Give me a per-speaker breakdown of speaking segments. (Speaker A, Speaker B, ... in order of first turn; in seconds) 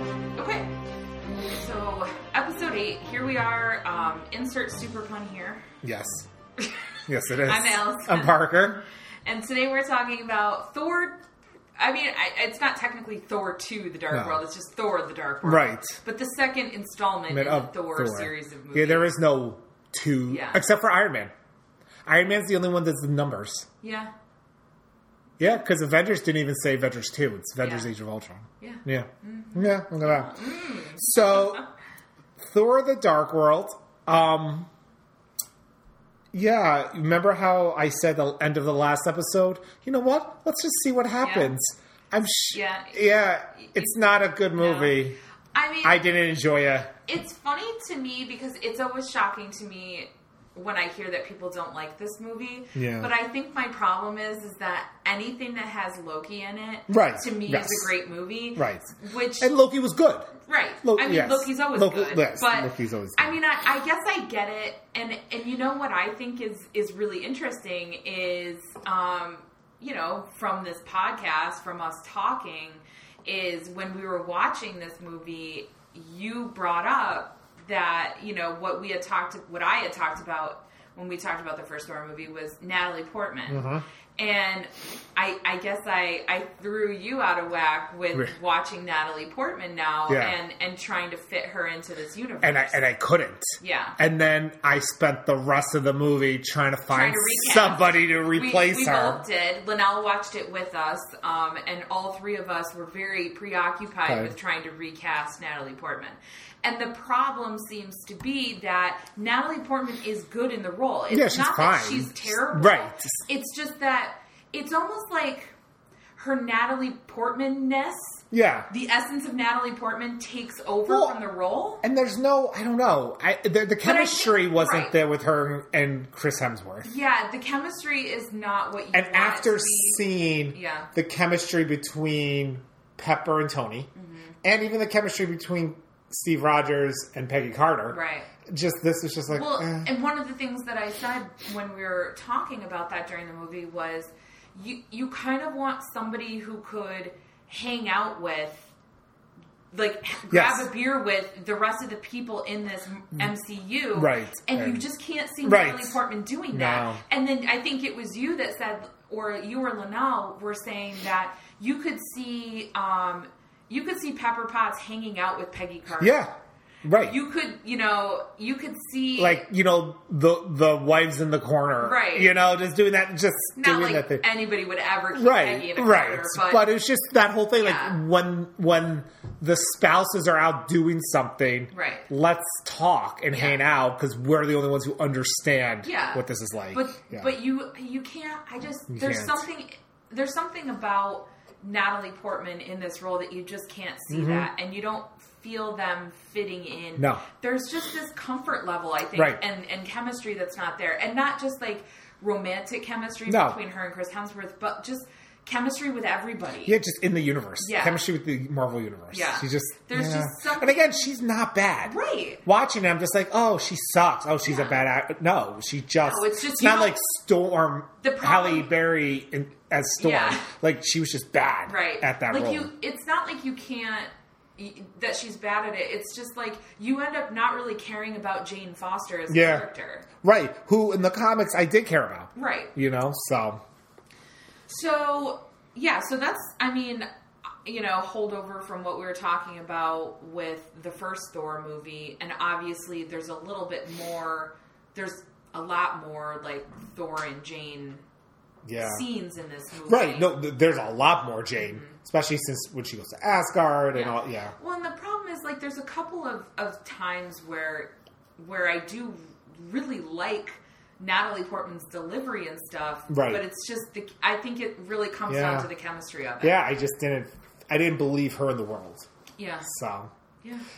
Speaker A: 0.3-0.7, 1.5-5.6, 6.6-6.8, 7.4-11.2, 11.8-19.1, 20.3-20.6, 23.8-24.1, 27.6-27.9, 28.6-31.7, 41.2-41.5, 42.5-45.0, 45.5-46.0, 47.0-59.5, 60.5-92.8, 93.6-94.0, 96.9-115.5, 116.2-121.8, 123.8-124.9, 126.8-130.9, 133.9-134.3, 137.9-138.3, 139.3-148.7, 149.7-166.2, 167.0-169.4, 171.8-172.3, 173.6-176.7, 177.6-178.0, 181.7-182.1, 183.3-183.6, 185.8-206.8, 207.6-208.0, 209.1-211.1, 211.8-212.4, 214.4-214.8, 216.0-216.9, 218.0-218.7, 220.0-220.5, 221.7-230.1, 232.3-232.7, 234.7-237.1, 237.6-248.0, 248.8-250.3, 251.6-252.0, 253.9-266.6, 269.4-269.7
Speaker B: 5.8-6.3, 7.1-8.8, 14.1-14.4, 15.4-16.0, 17.3-21.3, 22.0-23.7, 25.4-31.6, 32.4-34.7, 36.3-45.2, 45.8-46.9, 52.7-53.1, 56.9-57.9, 58.5-58.9, 59.4-63.4, 83.5-83.8, 90.1-90.3, 92.4-99.2, 104.1-104.3, 111.1-113.0, 118.3-118.7, 120.9-121.2, 121.8-126.9, 128.9-133.9, 134.4-139.9, 150.3-150.7, 153.9-154.8, 155.4-156.0, 156.5-157.0, 166.0-166.3, 166.8-167.2, 169.2-174.2, 175.1-187.3, 188.9-189.4, 194.1-194.5, 196.9-197.2, 199.2-199.4, 203.3-203.6, 206.7-222.7, 229.3-229.7, 230.2-233.6, 248.7-249.0, 249.9-254.5, 263.1-263.4, 265.3-265.7, 266.4-269.1, 269.6-270.1